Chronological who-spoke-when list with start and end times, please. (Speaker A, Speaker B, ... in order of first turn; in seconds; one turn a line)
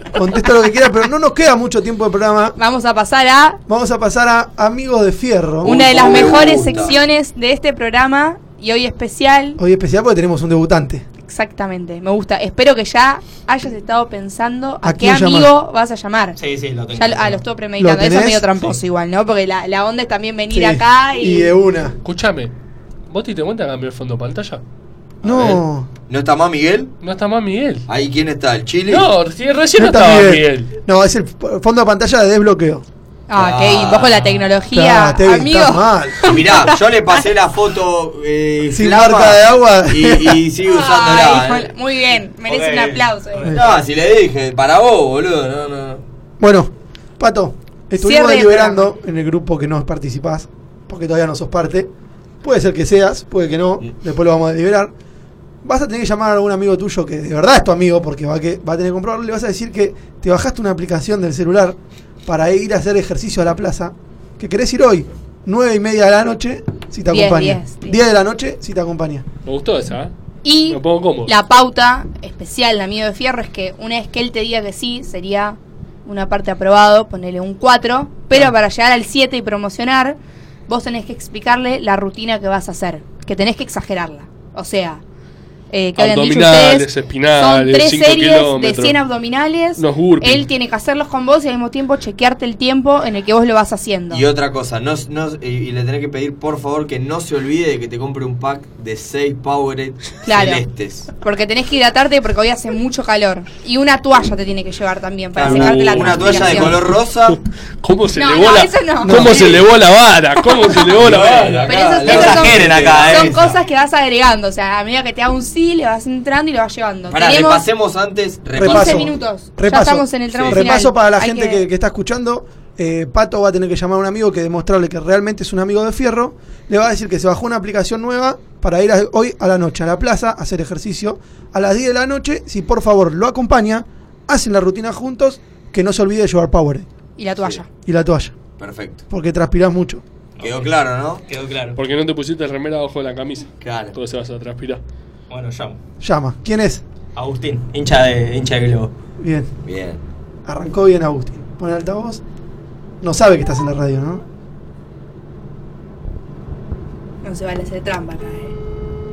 Speaker A: 0.1-2.6
Speaker B: 2.6-3.6
Speaker A: 3.7-6.0
Speaker C: 5.6-7.0
Speaker B: 5.7-9.6
Speaker A: 9.6-11.1
Speaker B: 11.2-16.4
Speaker A: 14.8-15.5
Speaker D: 16.4-17.4
Speaker B: 16.9-21.5
Speaker A: 17.8-18.5
Speaker A: 20.5-22.0
Speaker E: 22.0-22.5
Speaker E: 23.1-24.6
Speaker A: 25.2-25.9
Speaker C: 25.2-26.9
Speaker E: 27.0-27.9
Speaker C: 27.9-29.1
Speaker E: 28.9-30.7
Speaker A: 29.8-32.9
Speaker B: 33.3-37.2
Speaker C: 33.3-34.3
Speaker A: 34.7-36.3
Speaker C: 36.2-41.7
Speaker A: 38.7-40.4
Speaker B: 40.6-43.5
Speaker D: 42.5-43.6
Speaker C: 43.5-46.0
Speaker A: 46.4-51.9
Speaker B: 48.0-48.9
Speaker A: 52.4-54.9
Speaker A: 55.6-69.2
Speaker B: 67.1-68.0
Speaker E: 69.5-70.1
Speaker B: 70.4-85.0
Speaker E: 70.7-71.3
Speaker B: 85.7-94.3
Speaker E: 86.0-89.0
Speaker E: 89.8-90.5
Speaker C: 94.1-101.1
Speaker B: 100.2-100.7
Speaker B: 101.2-106.9
Speaker C: 105.4-107.4
Speaker E: 105.5-106.8
Speaker D: 105.9-106.5
Speaker E: 107.3-111.7
Speaker B: 108.1-109.7
Speaker A: 109.0-109.6
Speaker C: 111.0-113.6
Speaker B: 111.6-117.7
Speaker D: 112.0-113.4
Speaker C: 117.1-119.1
Speaker A: 118.5-136.9
Speaker B: 118.6-121.7
Speaker C: 120.3-120.6
Speaker B: 137.2-137.7
Speaker A: 137.8-138.4
Speaker C: 138.6-139.0
Speaker A: 139.1-140.0
Speaker D: 140.4-140.7
Speaker C: 140.4-141.2
Speaker D: 141.3-141.8
Speaker E: 141.8-144.8
Speaker C: 143.6-144.0
Speaker D: 145.3-145.8
Speaker A: 146.0-146.8
Speaker D: 147.2-148.9
Speaker A: 149.2-149.5
Speaker C: 149.7-150.0
Speaker A: 150.5-152.2
Speaker A: 153.0-154.2
Speaker B: 157.2-158.6